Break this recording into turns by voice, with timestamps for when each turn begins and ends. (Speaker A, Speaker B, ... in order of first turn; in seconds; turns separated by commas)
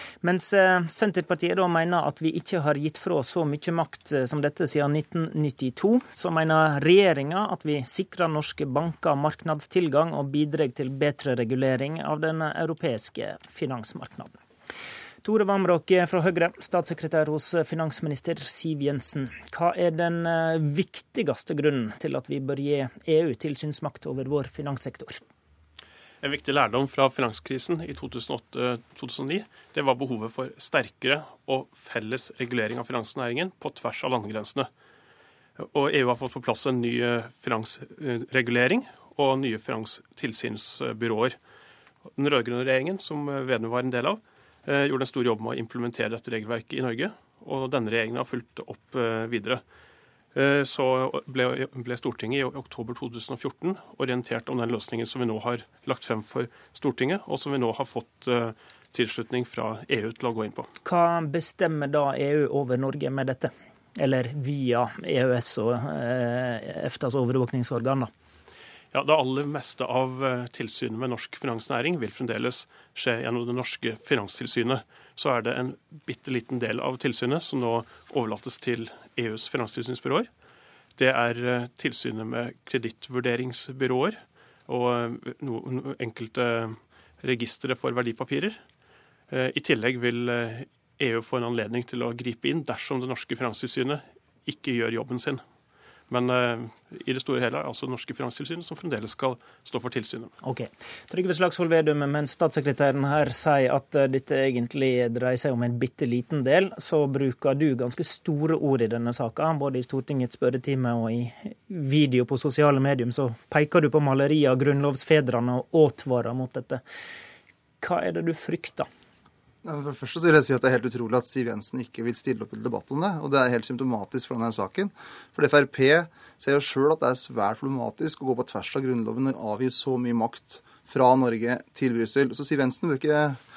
Speaker A: 0.2-14.4, Speaker A: 15.2-25.2, Speaker B: 26.2-34.7, Speaker B: 35.6-41.4, Speaker B: 42.1-49.6, Speaker B: 50.3-60.7, Speaker A: 60.8-68.1, Speaker B: 68.9-80.3, Speaker B: 81.0-88.6, Speaker B: 89.3-95.4, Speaker B: 96.1-100.3, Speaker A: 100.4-116.8, Speaker A: 117.8-118.9, Speaker C: 119.6-133.4